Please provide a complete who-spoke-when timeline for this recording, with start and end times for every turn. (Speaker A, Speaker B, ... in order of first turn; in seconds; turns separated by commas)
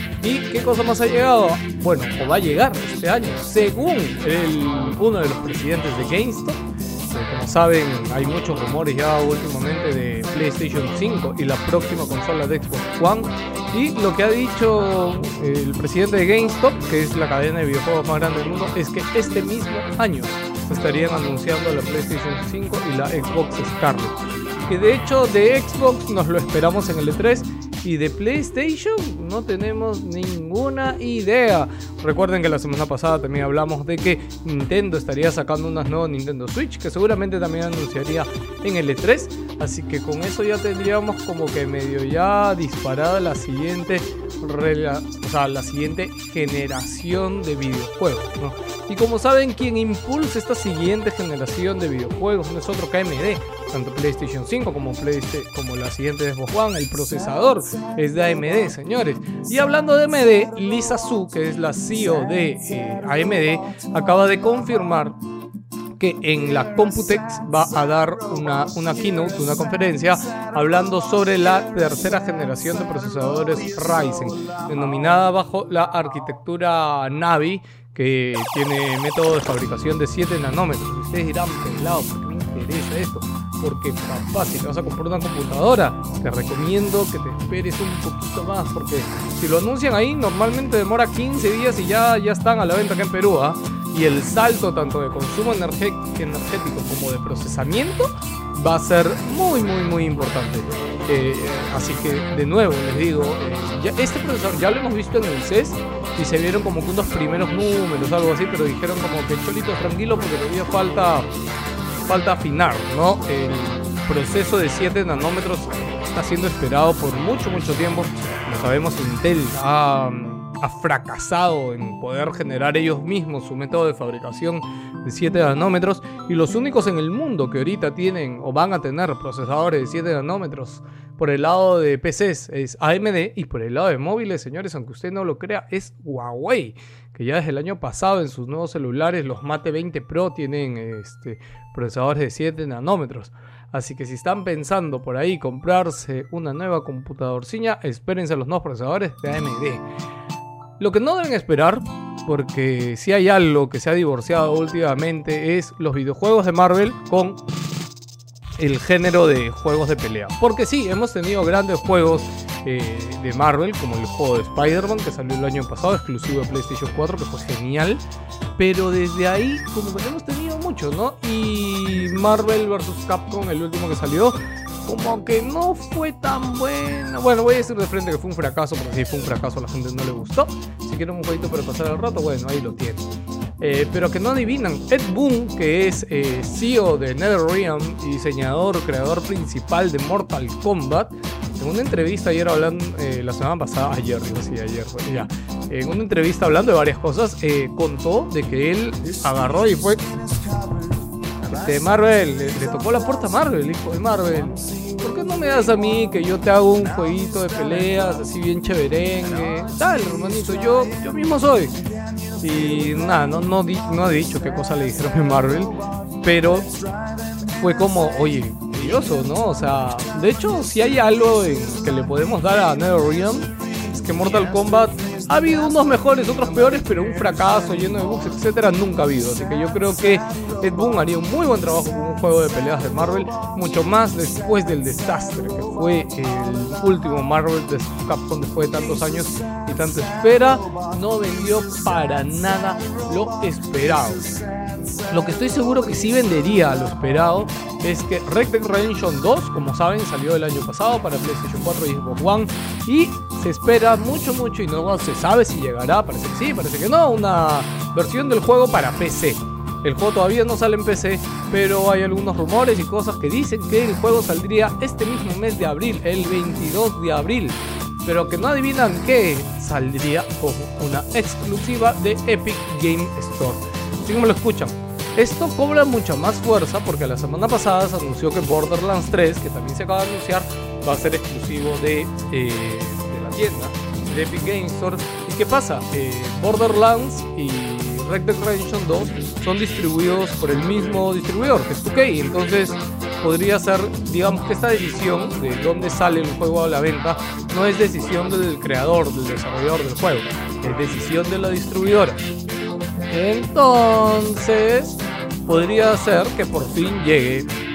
Speaker A: 0.2-24.2, Speaker A: 24.7-65.2, Speaker A: 66.0-111.3, Speaker A: 112.1-149.8, Speaker A: 150.8-157.4, Speaker A: 158.6-168.0, Speaker A: 168.6-183.1, Speaker A: 183.6-200.1, Speaker A: 201.5-211.8, Speaker A: 212.4-216.7, Speaker A: 217.6-244.3, Speaker A: 245.1-302.3, Speaker A: 303.1-307.5